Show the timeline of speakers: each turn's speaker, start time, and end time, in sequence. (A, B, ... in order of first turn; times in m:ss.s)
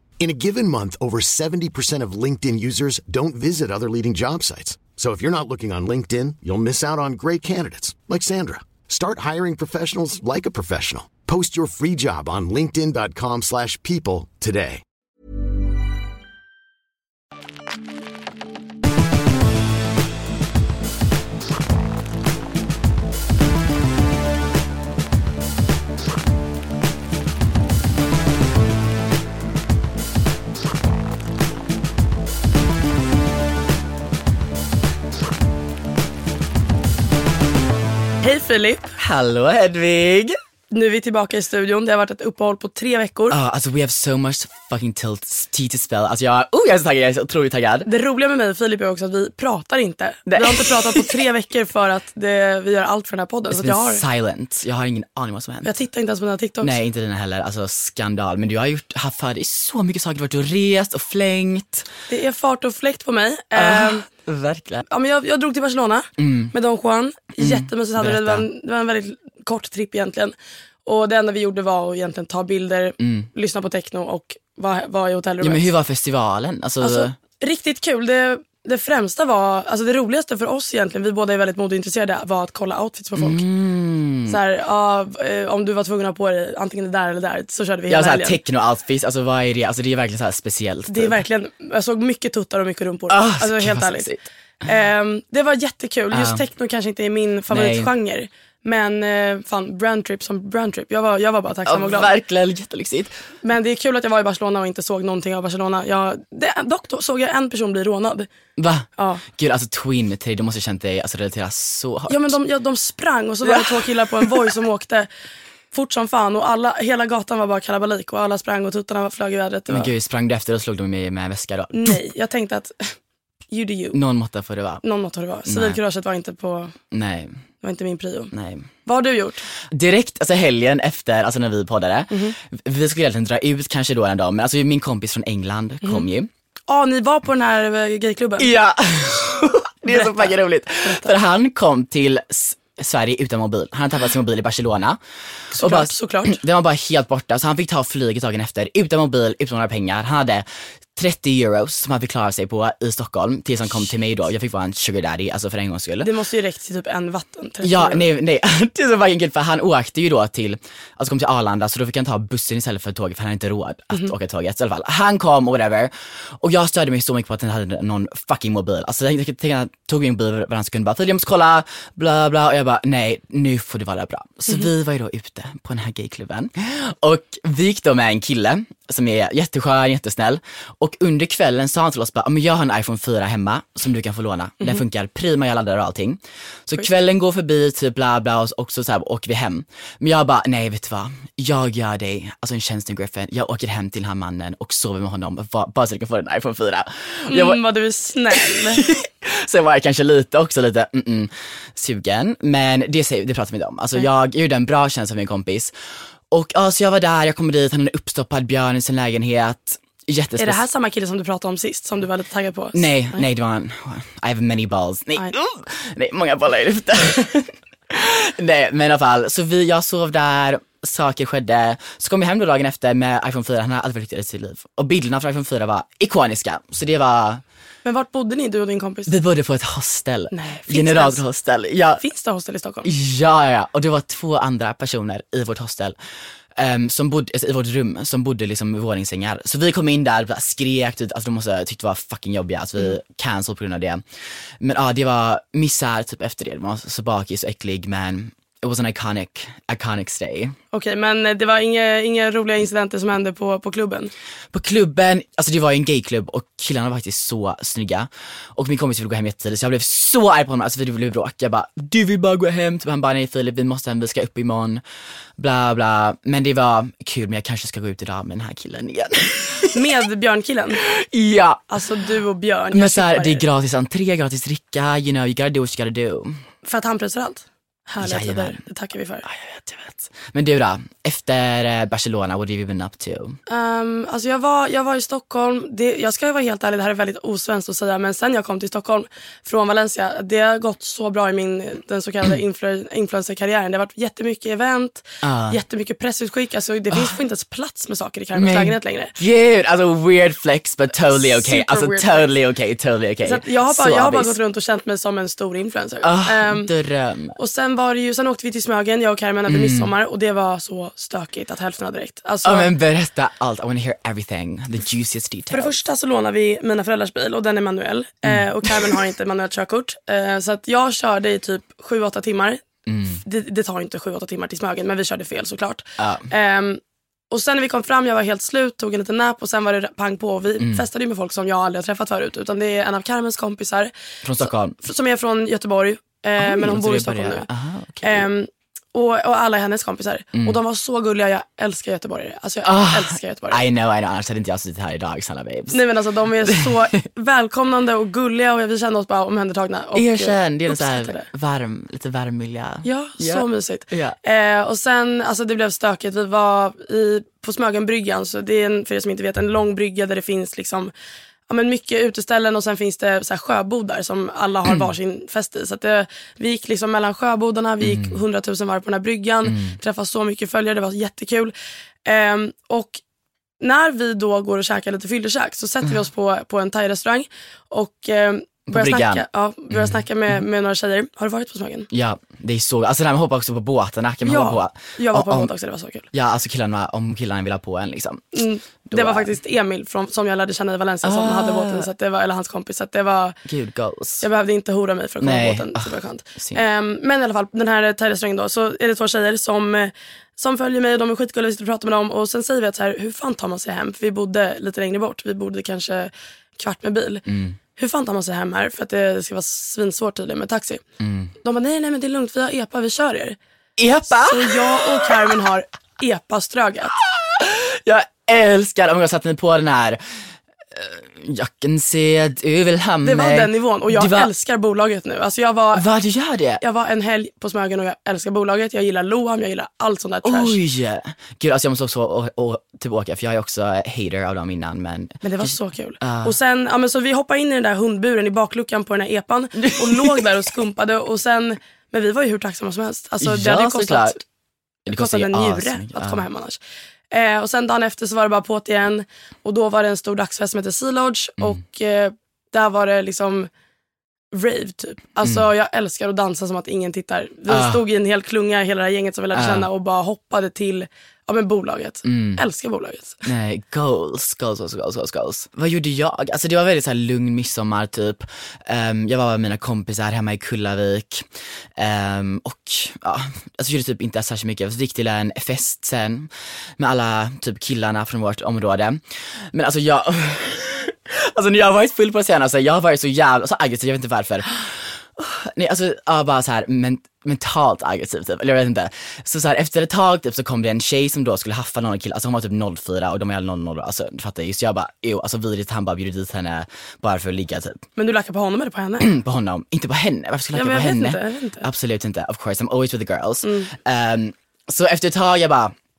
0:00.2-0:14.8 A
0:38.2-0:38.9 B
0:39.0-0:40.4 C
0:40.7-0:43.4 B
0:43.3-0:47.9 C
0:47.8-0:54.0 B
0:50.3-0:51.1 C
0:53.5-0:55.7 C
0:55.6-0:56.7 B
0:56.6-1:01.9 C
1:02.1-1:04.0 B
1:03.5-1:04.8 C
1:04.8-1:15.7 B
1:06.2-1:06.5 C
1:07.4-1:08.4 C
1:13.0-1:13.3 C
1:15.4-1:17.2 C
1:16.8-1:23.4 B
1:23.2-1:24.4 C
1:24.3-1:28.4 B
1:27.9-1:31.2 C
1:30.9-1:34.1 B
1:33.1-1:34.2 C
1:34.6-1:42.1 B
1:36.1-1:36.4 C
1:37.5-1:37.9 C
1:41.6-1:43.1 C
1:43.4-1:48.3 B
1:48.6-1:52.4 C
1:49.0-1:49.2 B
1:52.1-1:55.1 B
1:53.4-1:54.4 C
1:55.7-1:59.9 B
1:59.7-2:02.0 C
2:01.7-2:03.0 B
2:03.5-2:04.0 B
2:03.9-2:04.8 C
2:04.8-2:06.7 B
2:05.5-2:05.8 C
2:06.9-2:07.4 C
2:07.6-2:08.3 B
2:08.3-2:08.7 C
2:08.8-2:09.5 B
2:09.6-2:16.3 C
2:12.1-2:12.4 B
2:16.7-2:18.5 B
2:18.4-2:25.0 C
2:19.8-2:21.1 B
2:25.5-2:36.1 C
2:25.5-2:26.4 B
2:36.0-2:38.0 B
2:37.6-3:17.6 C
3:17.3-3:18.8 B
3:18.3-3:25.7 C
3:26.3-3:30.6 C
3:30.4-3:33.2 B
3:32.7-3:47.4 C
3:47.8-3:49.2 B
3:49.1-3:52.0 C
3:50.3-3:51.2 B
3:52.0-3:52.9 B
3:52.8-3:56.0 C
3:56.5-4:04.0 C
4:04.6-4:10.6 C
4:10.7-4:14.1 B
4:14.5-4:24.8 C
4:25.4-4:29.7 C
4:29.7-4:30.8 B
4:30.9-4:31.7 C
4:31.7-4:33.4 B
4:32.7-4:36.4 C
4:36.6-4:39.2 B
4:38.0-4:38.6 C
4:39.2-4:43.4 C
4:43.5-4:59.2 B
4:55.2-4:55.6 C
4:58.3-5:04.4 C
5:01.1-5:02.3 B
5:03.2-5:06.7 B
5:06.0-5:07.4 C
5:07.4-5:12.7 B
5:09.5-5:09.9 C
5:12.4-5:15.8 C
5:15.5-5:37.5 B
5:18.2-5:18.9 C
5:22.8-5:23.2 C
5:26.0-5:26.3 C
5:34.2-5:34.8 C
5:36.4-5:38.3 C
5:38.0-5:43.6 B
5:42.6-5:45.9 C
5:45.7-5:51.3 B
5:46.4-5:46.8 C
5:49.9-5:54.2 C
5:52.8-6:00.9 B
6:01.5-6:11.5 B
6:07.8-6:08.2 C
6:09.4-6:09.8 C
6:12.0-6:13.0 B
6:13.6-6:21.9 B
6:18.7-6:20.0 C
6:21.9-6:25.5 C
6:24.2-6:26.1 B
6:26.1-6:29.3 C
6:28.3-6:33.4 B
6:31.0-6:31.9 C
6:33.4-6:34.2 C
6:34.2-6:47.2 B
6:35.2-6:36.6 C
6:47.3-6:47.6 C
6:47.8-6:50.8 B
6:51.0-6:51.3 C
6:51.4-6:53.4 B
6:53.8-6:55.3 C
6:54.1-6:57.0 B
6:57.0-7:04.3 C
7:03.0-7:05.8 B
7:05.7-7:06.6 C
7:06.6-7:10.6 B
7:10.2-7:16.4 C
7:15.2-7:24.2 B
7:19.6-7:20.2 C
7:23.2-7:24.2 C
7:24.8-7:26.2 C
7:24.9-7:26.6 B
7:27.1-7:33.5 B
7:34.3-7:43.2 B
7:37.5-7:37.8 C
7:39.3-7:39.7 C
7:42.0-7:42.4 C
7:43.2-8:17.8 C
8:18.0-8:19.1 B
8:19.0-8:25.7 C
8:20.5-8:21.7 B
8:23.4-8:23.7 B